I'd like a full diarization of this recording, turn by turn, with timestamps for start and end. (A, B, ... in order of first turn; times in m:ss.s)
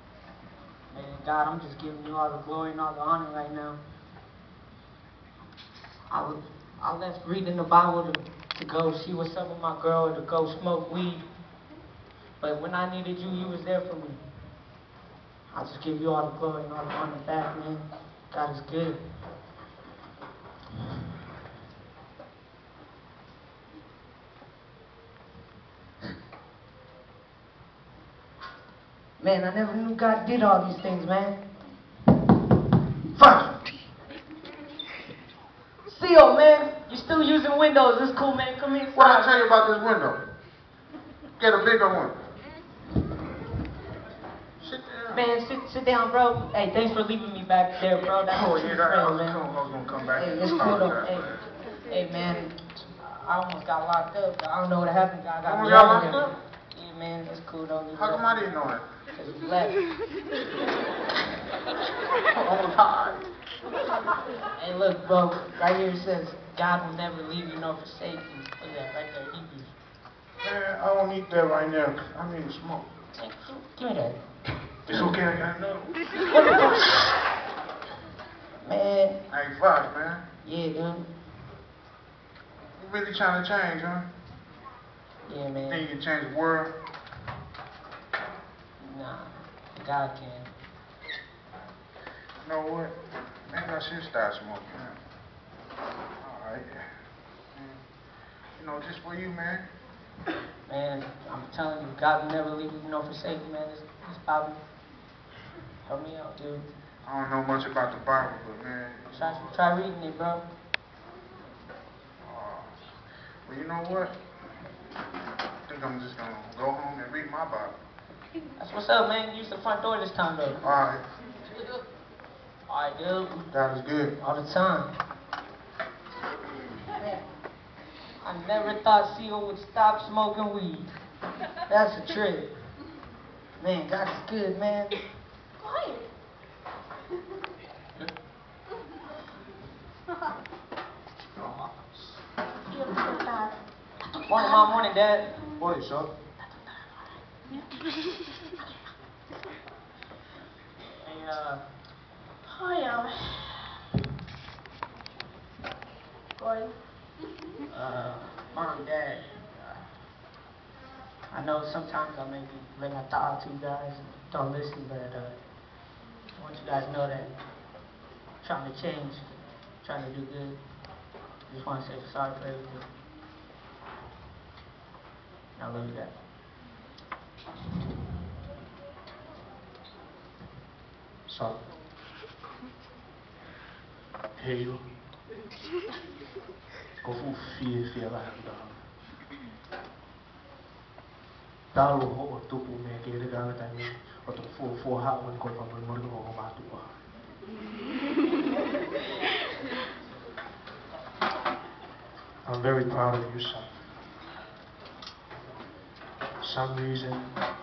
0:00.9-0:03.8 A
0:06.1-0:11.2 A
0:12.4-0:14.2 A
0:15.5-0:19.0 A
0:29.2-0:31.4 A
0:33.2-0:33.5 A
0:35.9-0:39.3 A
0:38.9-0:40.2 B
0:41.4-0:42.2 B
0:44.6-0:45.2 B
0:45.1-0:49.4 A
0:48.2-0:51.2 B
0:50.1-0:58.5 A
0:55.4-0:56.3 B
0:57.9-0:58.9 B
0:59.1-0:59.8 A
1:02.3-1:03.2 B
1:04.6-1:09.7 A
1:10.4-1:12.9 B
1:13.2-1:14.2 A
1:14.9-1:15.1 A
1:14.9-1:16.0 B
1:16.3-1:17.1 A
1:18.6-1:19.2 A
1:19.3-1:20.2 B
1:20.4-1:21.1 A
1:22.8-1:24.1 B
1:25.2-1:25.9 A
1:25.6-1:26.7 B
1:28.8-1:30.5 A
1:32.4-1:33.0 B
1:33.5-1:35.0 B
1:36.2-1:36.9 B
1:37.5-1:37.8 B
1:38.5-1:39.7 B
1:40.6-1:44.6 A
1:45.8-1:46.6 A
1:47.0-1:49.6 B
1:49.1-1:50.4 A
1:52.2-1:52.8 B
1:53.4-1:54.2 B
1:55.7-1:57.8 B
1:58.6-2:00.6 A
2:00.6-2:01.0 B
2:01.4-2:01.8 A
2:02.7-2:03.5 A
2:03.5-2:04.2 B
2:04.2-2:04.9 A
2:06.9-2:07.2 A
2:08.2-2:10.9 A
2:11.7-2:12.5 A
2:13.6-2:15.0 A
2:15.6-2:16.1 C
2:21.3-2:22.1 B
2:22.7-2:23.6 C
2:24.2-2:25.6 A
2:24.3-2:24.8 C
2:25.6-2:26.1 B
2:26.4-2:27.0 A
2:31.0-2:31.6 A
2:32.4-2:33.8 C
2:36.4-2:36.8 C
2:37.7-2:39.8 A
2:41.3-2:45.3 A
2:46.3-2:47.3 A
2:48.4-2:50.6 A
2:51.5-2:52.9 A
2:55.6-2:56.1 A
3:01.3-3:01.6 D
3:04.4-3:04.9 D
3:07.0-3:08.8 D
3:11.7-3:16.9 D
3:22.4-3:23.7 D
3:26.4-3:27.3 D